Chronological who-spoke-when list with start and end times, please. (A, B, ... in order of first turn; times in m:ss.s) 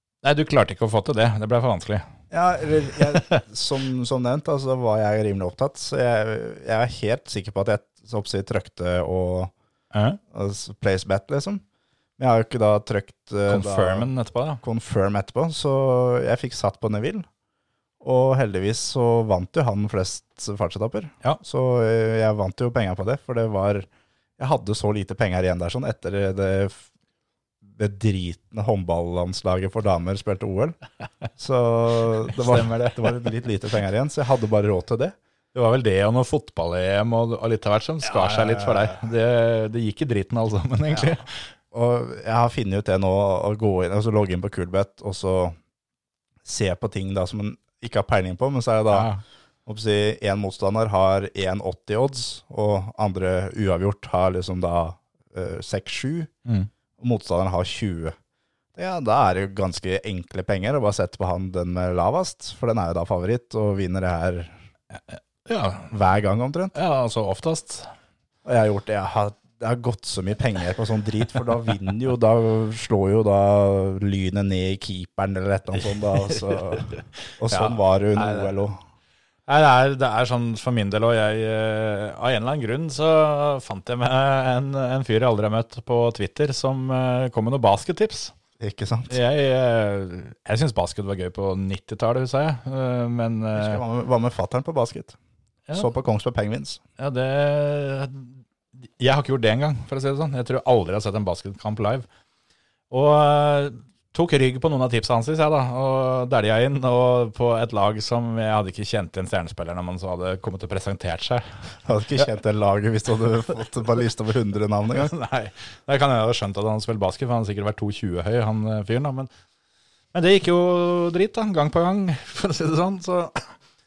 0:00.2-0:02.0 A
0:02.3-0:09.5 B
0:03.1-0:03.4 A
0:09.9-0:10.2 A
0:10.3-0:11.6 B
0:12.2-0:14.1 B
0:13.5-0:14.6 A
0:14.6-0:17.3 B
0:18.0-0:23.9 B
0:24.4-0:26.8 B
0:27.8-0:30.8 B
0:31.4-0:35.2 B
0:32.3-0:33.1 A
0:35.5-0:41.4 A
0:38.0-0:39.0 B
0:41.7-0:45.6 B
0:46.4-0:49.1 B
0:48.9-0:49.2 A
0:49.7-0:56.3 B
0:57.0-0:58.2 B
0:58.8-1:04.6 B
1:05.0-1:05.9 A
1:05.9-1:06.8 B
1:06.7-1:07.9 A
1:08.4-1:18.8 B
1:17.5-1:18.5 A
1:19.5-1:28.4 A
1:28.6-1:29.2 B
1:29.1-1:33.8 A
1:33.6-1:35.2 B
1:35.7-1:36.8 B
1:37.0-1:42.1 A
1:42.9-1:51.4 A
1:51.8-1:55.1 B
1:55.0-1:59.3 A
2:00.1-2:03.5 A